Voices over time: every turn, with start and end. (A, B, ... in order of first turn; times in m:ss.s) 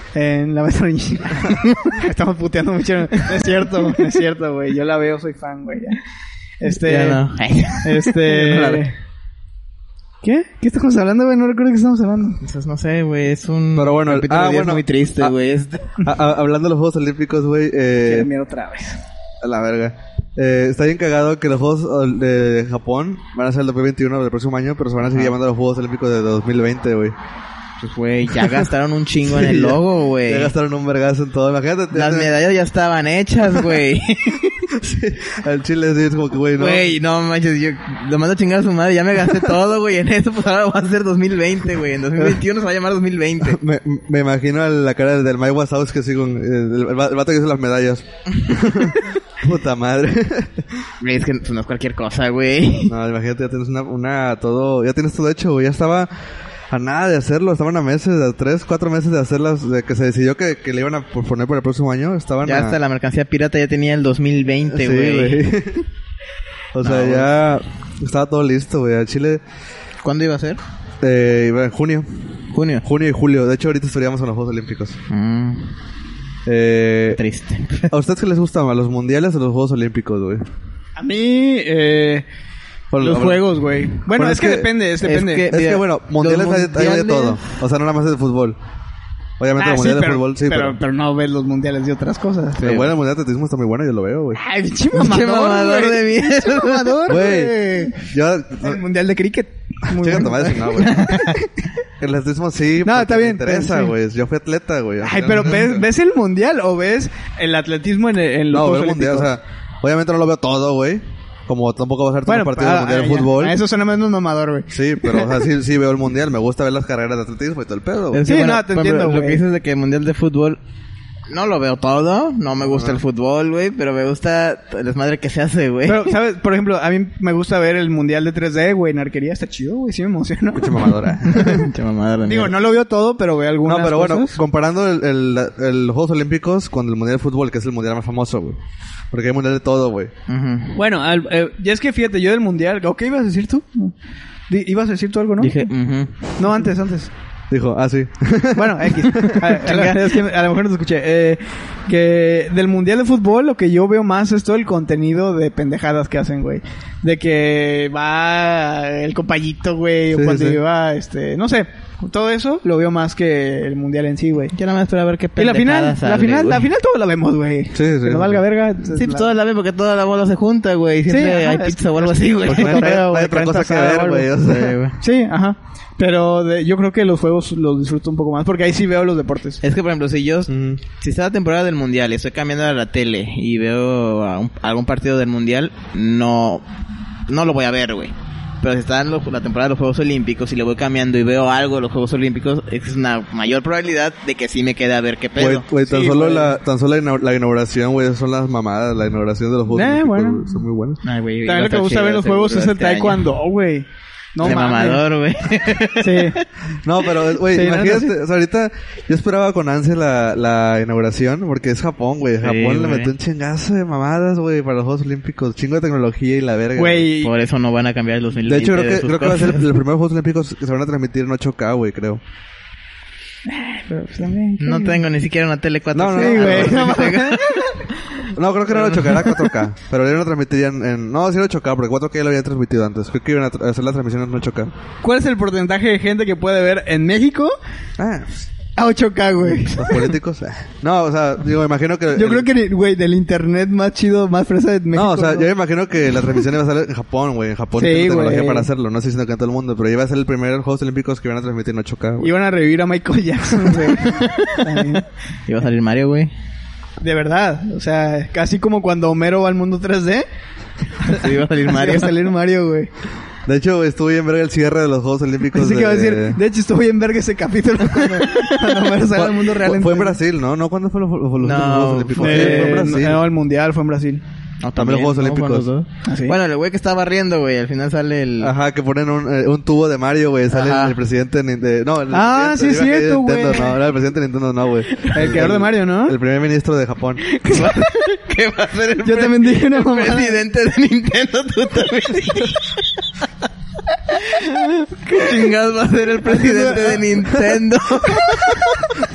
0:00.1-0:06.0 A
0:06.6-0:07.2 A
0:06.6-0:08.2 B
0:07.8-0:08.9 A
0:08.3-0:08.8 C
0:10.2-0:12.4 A
0:12.4-0:16.0 B
0:13.8-0:15.3 C
0:16.0-0:18.3 C
0:18.0-0:19.0 A
0:19.4-0:27.1 C
0:25.0-0:25.3 B
0:27.8-0:30.5 B
0:29.2-0:32.4 C
0:31.9-0:34.7 B
0:34.7-0:36.9 C
0:36.6-0:43.6 B
0:42.2-0:42.4 C
0:43.4-0:50.9 C
0:51.0-0:52.9 B
0:52.9-0:56.1 C
0:56.7-1:02.8 C
1:02.4-1:05.4 B
1:04.7-1:05.8 C
1:06.7-1:09.4 C
1:06.8-1:07.3 B
1:10.0-1:10.6 B
1:11.0-1:12.1 C
1:12.5-1:12.8 B
1:12.8-1:15.0 C
1:15.1-1:15.7 B
1:16.4-1:17.2 C
1:17.1-1:17.9 B
1:17.9-1:20.4 C
1:21.0-1:22.2 A
1:22.9-1:24.7 C
1:23.0-1:25.5 A
1:25.0-1:27.4 B
1:25.5-1:28.6 C
1:29.4-1:30.8 C
1:29.6-1:32.6 A
1:32.6-1:32.9 B
1:32.6-1:34.4 C
1:34.4-1:38.1 A
1:34.9-1:37.2 B
1:37.1-1:38.8 C
1:38.6-1:41.7 A
1:39.9-1:41.2 C
1:40.8-1:41.4 B
1:42.0-1:45.8 C
1:42.8-1:43.9 A
1:45.0-1:49.3 A
1:48.5-1:53.6 C
1:52.3-1:55.3 A
1:54.7-1:58.2 C
1:58.1-2:00.6 B
1:58.2-1:59.4 A
2:01.3-2:06.1 B
2:02.6-2:03.0 C
2:05.8-2:11.7 A
2:10.5-2:11.7 C
2:11.3-2:12.5 B
2:12.2-2:14.4 A
2:13.6-2:18.6 C
2:19.1-2:20.1 C
2:20.3-2:20.8 B
2:20.8-2:23.9 A
2:24.5-2:25.7 A
2:25.4-2:26.3 B
2:26.4-2:27.1 A
2:27.5-2:29.5 C
2:28.5-2:44.5 A
2:29.6-2:30.0 B
2:40.1-2:40.6 C
2:44.5-2:46.7 B
2:45.4-2:49.3 A
2:47.7-2:48.4 C
2:48.9-2:53.0 B
2:51.1-2:54.3 A
2:52.4-2:54.8 C
2:54.4-2:55.0 B
2:55.0-2:59.6 A
2:59.6-3:06.6 B
3:00.5-3:00.8 C
3:07.3-3:15.7 B
3:15.4-3:21.0 C
3:15.8-3:16.5 A
3:19.7-3:20.6 A
3:21.0-3:23.3 B
3:21.4-3:25.0 A
3:24.4-3:26.4 B
3:26.0-3:26.4 A
3:26.8-3:37.1 C
3:27.5-3:28.1 A
3:32.4-3:33.1 B
3:36.8-3:37.3 A
3:37.2-3:39.7 B
3:38.4-3:42.2 C
3:43.5-3:45.0 A
3:44.6-3:47.7 B
3:45.9-3:47.0 C
3:46.2-3:47.9 A
3:48.3-3:54.7 C
3:48.7-3:49.5 B
3:55.0-3:57.5 A
3:58.0-3:58.5 C
3:58.8-4:00.1 A
3:59.7-4:02.5 C
4:02.1-4:05.5 A
4:04.9-4:12.3 C
4:07.8-4:08.7 A
4:12.2-4:15.0 A
4:14.0-4:16.3 B
4:17.0-4:20.2 A
4:21.0-4:22.9 A
4:21.1-4:22.2 B
4:23.4-4:26.4 C
4:25.5-4:30.2 A
4:29.1-4:33.2 C
4:31.4-4:32.9 B
4:32.2-4:34.2 A
4:34.6-4:38.5 B
4:34.8-4:35.7 C
4:36.0-4:36.3 A
4:38.4-4:47.2 C
4:40.5-4:41.0 B
4:42.1-4:43.8 A
4:45.0-4:46.2 A
4:47.3-4:48.0 A
4:47.5-4:53.0 B
4:49.0-4:50.4 A
4:54.1-4:55.5 A
4:54.2-4:58.8 B
4:56.2-4:57.2 A
4:58.1-4:58.9 A